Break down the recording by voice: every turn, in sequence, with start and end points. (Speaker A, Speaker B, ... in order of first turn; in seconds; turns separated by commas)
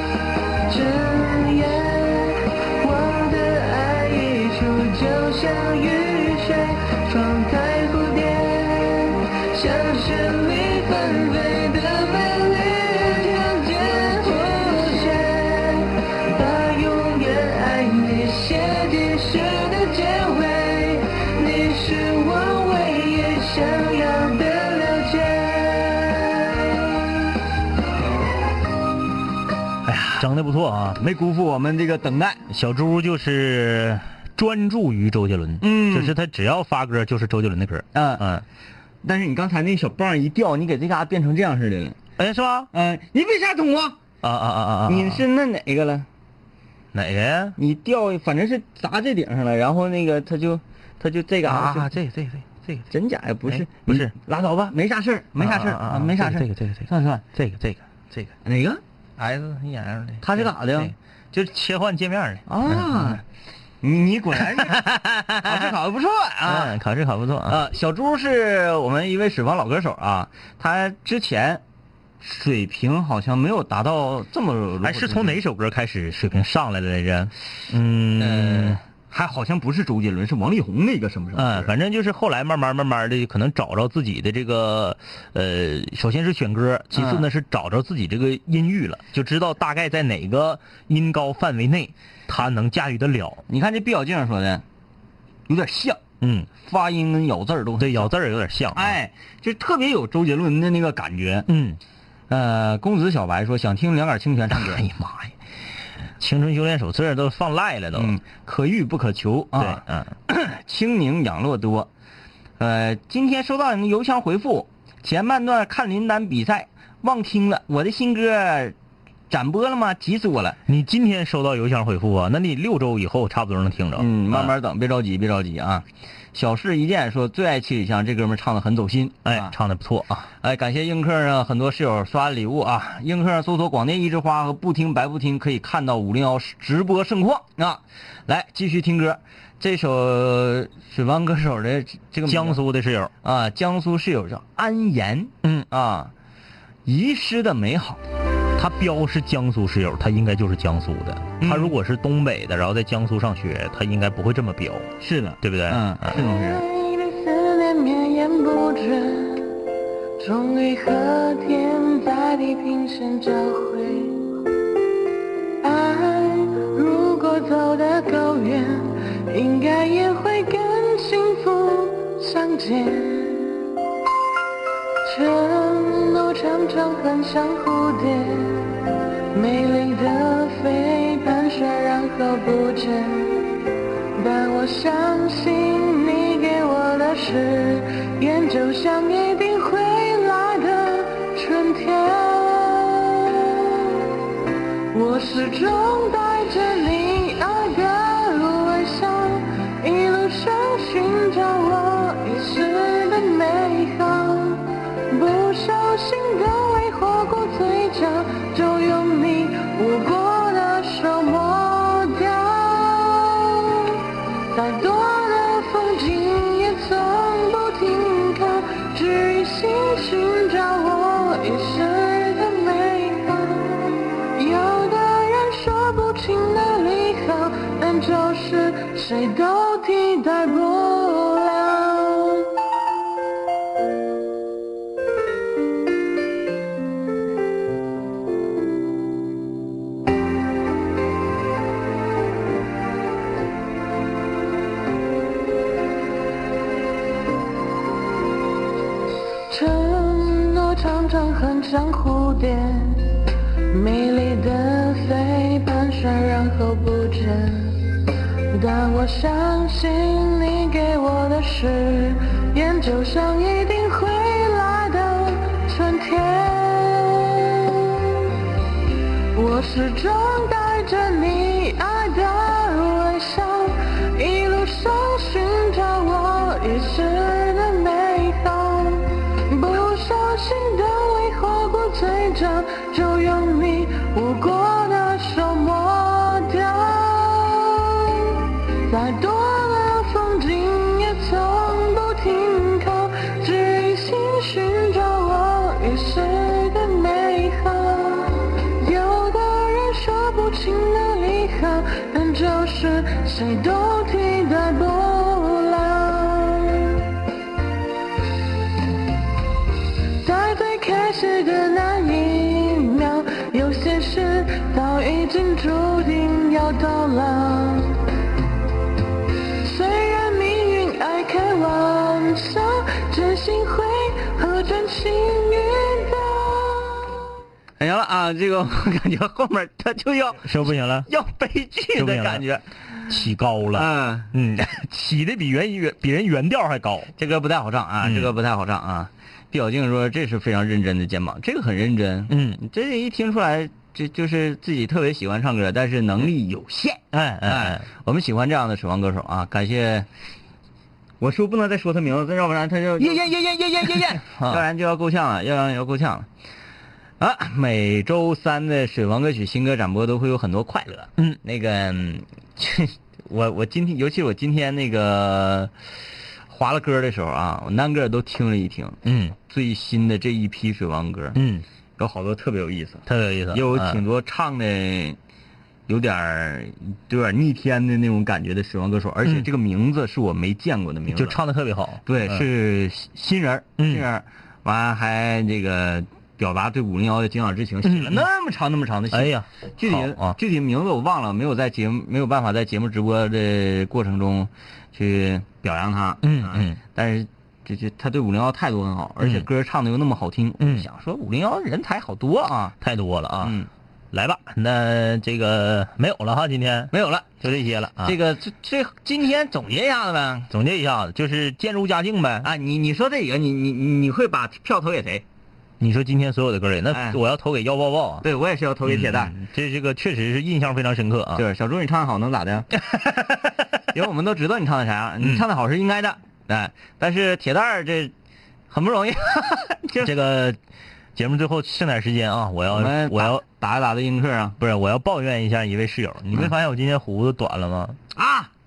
Speaker A: 0.7-26.7, Speaker B: 29.9-30.2, Speaker C: 30.1-31.0, Speaker B: 31.0-32.4, Speaker C: 32.5-38.4, Speaker B: 35.6-36.1, Speaker B: 37.9-38.2, Speaker B: 39.0-42.0, Speaker C: 42.2-42.7, Speaker B: 42.7-44.0, Speaker C: 44.2-45.2, Speaker B: 44.9-46.1, Speaker C: 46.9-47.6, Speaker B: 47.6-51.9, Speaker C: 51.4-52.9, Speaker B: 52.9-57.2, Speaker C: 53.5-54.1, Speaker C: 55.4-58.3, Speaker B: 58.4-58.8, Speaker C: 59.2-63.2, Speaker B: 60.2-60.9, Speaker B: 62.5-63.2, Speaker B: 63.8-64.8, Speaker C: 64.5-65.8, Speaker B: 65.4-66.8, Speaker C: 66.4-67.6, Speaker B: 67.5-71.6, Speaker B: 72.2-75.4, Speaker C: 74.8-78.8, Speaker B: 78.2-81.7, Speaker C: 81.3-93.4, Speaker B: 86.9-87.2, Speaker B: 93.5-94.6, Speaker B: 95.5-96.0, Speaker C: 96.2-96.5, Speaker B: 96.6-98.1, Speaker C: 97.8-99.0, Speaker B: 98.7-101.5, Speaker C: 101.5-101.8, Speaker B: 102.3-104.8, Speaker C: 104.5-105.3, Speaker C: 106.2-108.2, Speaker B: 107.9-111.9, Speaker C: 109.5-110.1, Speaker B: 112.6-118.7, Speaker B: 119.3-120.6, Speaker C: 120.7-124.5, Speaker B: 124.0-129.5, Speaker C: 129.2-130.3, Speaker B: 130.4-142.6, Speaker C: 142.3-143.1, Speaker B: 143.2-146.1, Speaker B: 146.8-148.0, Speaker C: 148.6-154.9, Speaker B: 151.4-151.7, Speaker B: 155.0-156.6, Speaker C: 155.4-156.0, Speaker A: 156.1-159.6, Speaker A: 160.2-164.2, Speaker A: 165.6-173.6, Speaker A: 175.0-178.8, Speaker A: 179.3-183.5, Speaker A: 184.2-193.8, Speaker A: 194.9-214.0, Speaker A: 214.5-232.5, Speaker A: 249.5-257.8, Speaker A: 258.5-268.0, Speaker A: 269.3-307.0, Speaker A: 310.2-318.0, Speaker A: 319.6-327.0, Speaker B: 327.8-332.6, Speaker C: 330.4-331.1, Speaker C: 331.9-332.4, Speaker C: 333.1-337.1, Speaker B: 333.7-334.3, Speaker B: 337.2-350.1, Speaker C: 338.0-338.3, Speaker C: 342.3-342.6, Speaker C: 347.1-347.8, Speaker B: 351.2-356.3, Speaker C: 353.0-353.3, Speaker C: 353.8-354.6, Speaker B: 357.2-365.7, Speaker B: 366.5-371.4, Speaker C: 369.0-369.4, Speaker C: 371.3-371.6, Speaker B: 372.0-375.2, Speaker C: 373.1-374.0, Speaker B: 375.9-381.4, Speaker C: 381.1-382.4, Speaker B: 382.1-402.7, Speaker C: 383.8-384.0, Speaker C: 387.8-388.3, Speaker C: 389.1-390.4, Speaker C: 396.2-396.8, Speaker C: 399.2-399.5, Speaker C: 400.6-400.9, Speaker C: 402.8-403.6, Speaker B: 403.4-403.7, Speaker C: 404.1-408.2, Speaker B: 406.9-407.3, Speaker B: 408.0-410.5, Speaker C: 410.5-412.5, Speaker B: 412.4-415.2, Speaker C: 415.8-418.2, Speaker B: 416.9-417.2, Speaker B: 418.2-419.3, Speaker C: 418.8-421.4, Speaker B: 421.4-422.8, Speaker C: 422.9-423.5, Speaker B: 423.9-428.1, Speaker B: 428.7-430.1, Speaker C: 430.0-430.6, Speaker C: 431.1-433.4, Speaker B: 432.7-434.6, Speaker C: 434.6-438.0, Speaker B: 438.1-438.5